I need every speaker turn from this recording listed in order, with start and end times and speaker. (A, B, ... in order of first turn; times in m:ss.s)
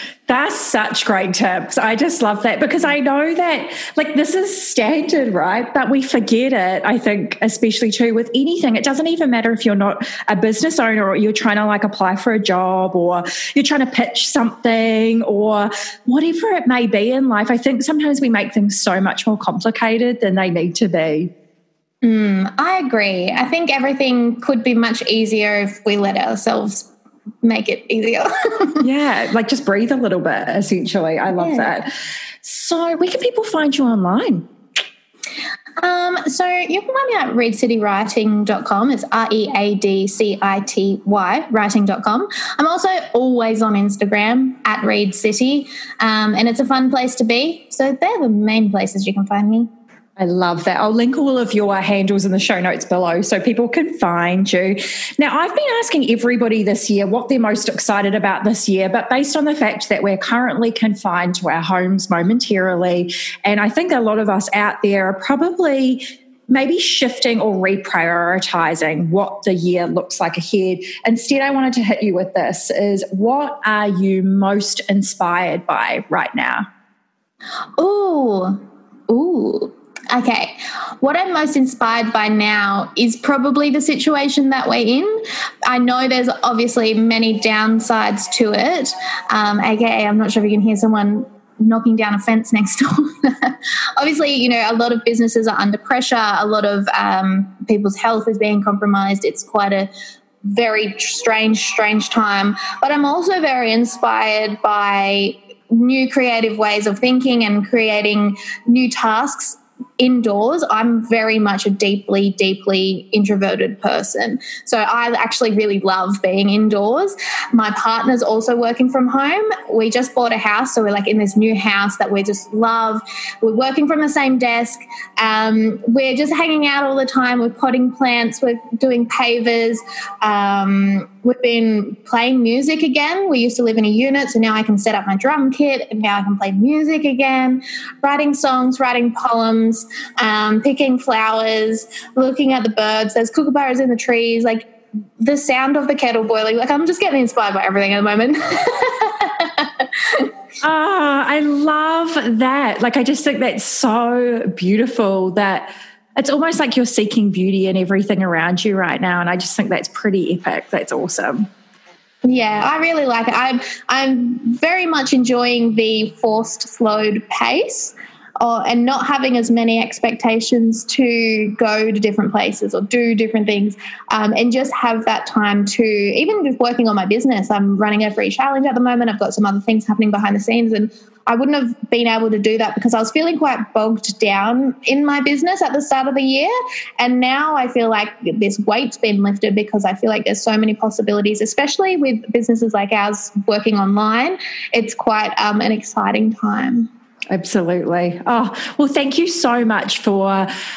0:00.3-0:21.3 A
0:22.0-0:26.9 B
0:27.4-0:28.9 B
0:28.8-0:31.9 A
0:31.4-0:31.7 B
0:32.4-0:34.5 A
0:35.8-0:49.7 B
0:50.2-1:16.6 A
1:17.8-1:39.9 B
1:40.4-2:30.3 B
2:30.6-2:41.5 A
2:42.2-3:16.9 B
3:17.3-3:20.5 A